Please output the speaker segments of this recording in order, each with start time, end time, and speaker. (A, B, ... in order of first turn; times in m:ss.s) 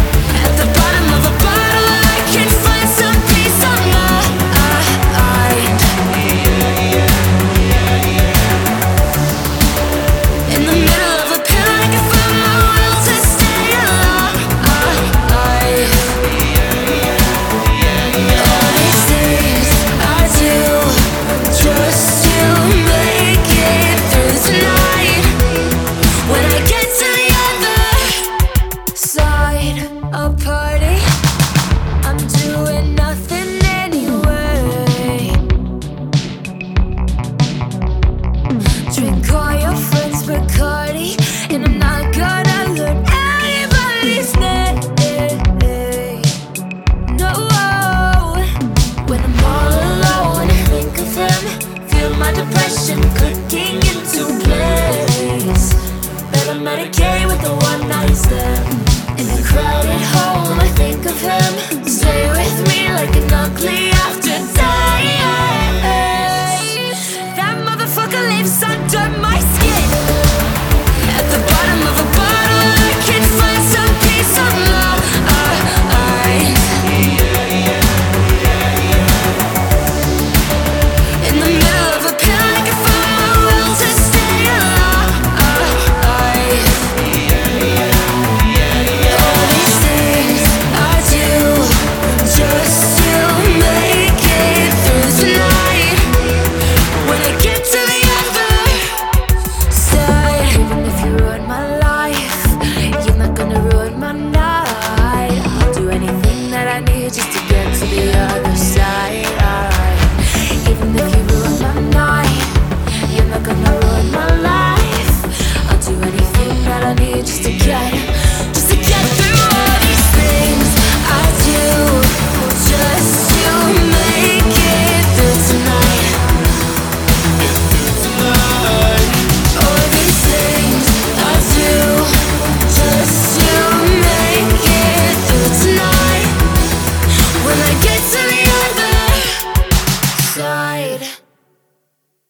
0:00.3-0:06.0 A
0:10.5-0:16.2 A
0:18.3-0:25.4 A
0:26.2-0:28.3 A
0:28.9-0:31.0 A
0:32.0-0:35.4 A
0:38.9-0:46.3 A
0:47.0-0:48.5 A
0:49.0-1:10.0 A
1:11.1-1:17.0 A
1:21.2-1:27.0 A
1:28.9-1:36.3 A
1:36.9-1:39.0 A
1:39.7-1:52.5 A
1:53.1-2:06.2 A
2:07.7-2:12.1 A
2:12.6-2:16.4 A
2:17.4-2:19.4 A
2:20.1-2:21.1 A